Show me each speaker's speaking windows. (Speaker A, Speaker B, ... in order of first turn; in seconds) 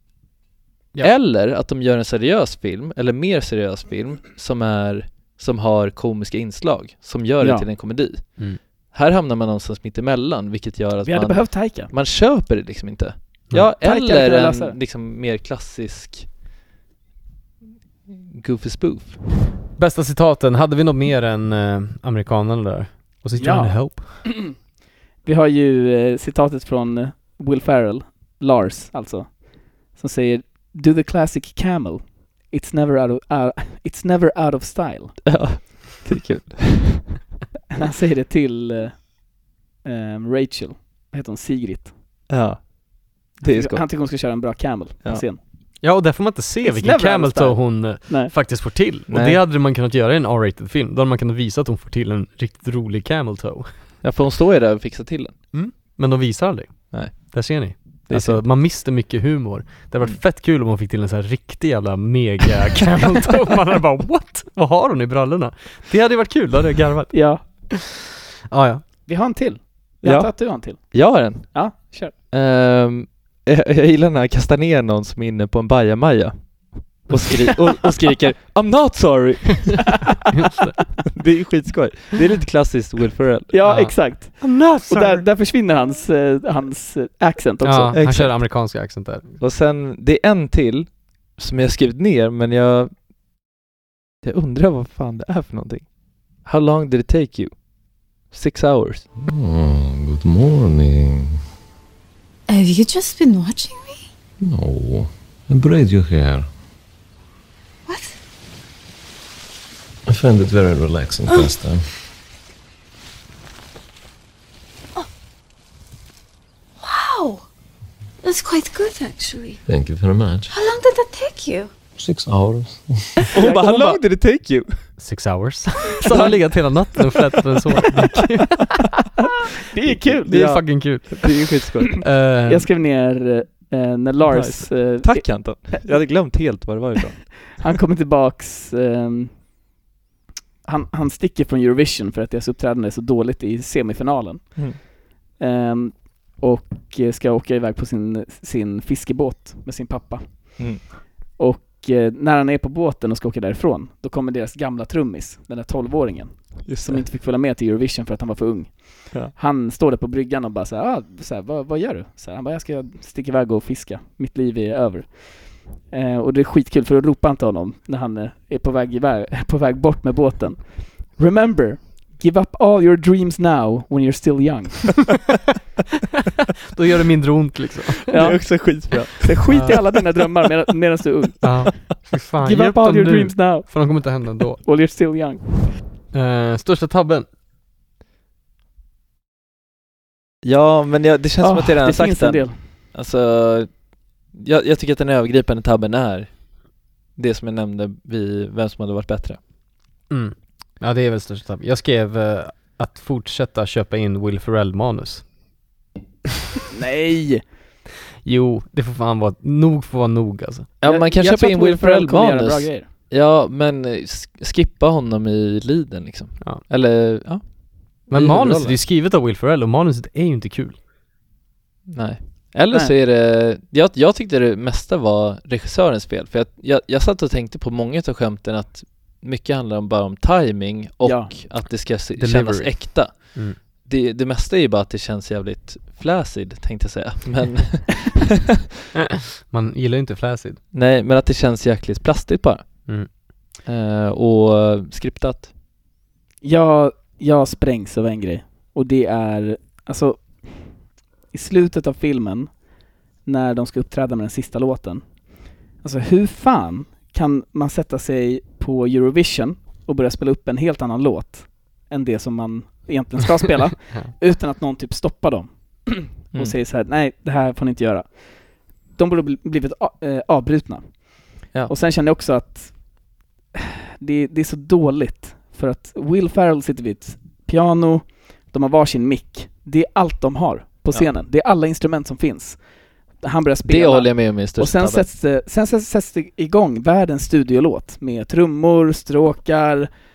Speaker A: 1.0-16.3, 18.1-19.2, 35.3-37.2, 42.3-42.8, 43.3-43.9, 49.1-49.4, 54.0-55.4, 56.9-57.4, 58.1-58.4, 70.0-80.0, 81.1-83.6, 87.9-88.4, 89.4-92.9, 94.2-95.9, 96.4-97.6, 98.3-99.0, 123.3-124.7, 130.3-132.0, 134.3-137.7, 150.6-150.8, 156.7-157.0, 178.1-179.9, 190.4-196.5, 197.2-199.4, 210.8-218.8, 221.9-238.4, 240.7-242.9, 243.7-245.5, 283.7-285.1
Speaker B: 7.4-7.7, 11.0-11.9, 13.8-14.8, 23.4-24.6, 25.2-35.4, 37.7-39.3, 39.8-41.9, 43.4-45.4, 46.6-48.3, 67.1-67.4, 69.1-72.1, 83.5-88.2, 123.3-124.0, 129.2-130.3, 132.4-136.0, 137.5-139.3, 140.7-144.9, 145.4-150.8, 151.4-175.2, 178.1-181.8, 182.4-185.7, 191.4-192.6, 206.7-207.4, 210.8-212.9, 231.0-231.3, 246.4-252.6, 253.2-255.2, 255.7-272.9, 273.5-282.6, 283.2-289.9
Speaker C: 19.8-24.1, 45.8-53.7, 55.5-67.6, 68.5-68.8, 80.3-80.8, 83.7-85.2, 87.6-89.3, 125.0-128.8, 130.2-131.3, 132.0-132.7, 176.7-178.0, 179.5-179.8, 181.4-184.6, 186.1-187.3, 200.1-205.3, 208.2-210.7, 218.1-220.8, 232.2-233.6, 239.0-240.6
Speaker D: 99.2-101.4, 104.4-106.5, 110.1-111.9, 119.7-120.5, 122.0-123.3
Speaker E: 102.5-104.0, 107.9-108.1, 116.8-117.4, 118.2-119.6, 120.5-121.7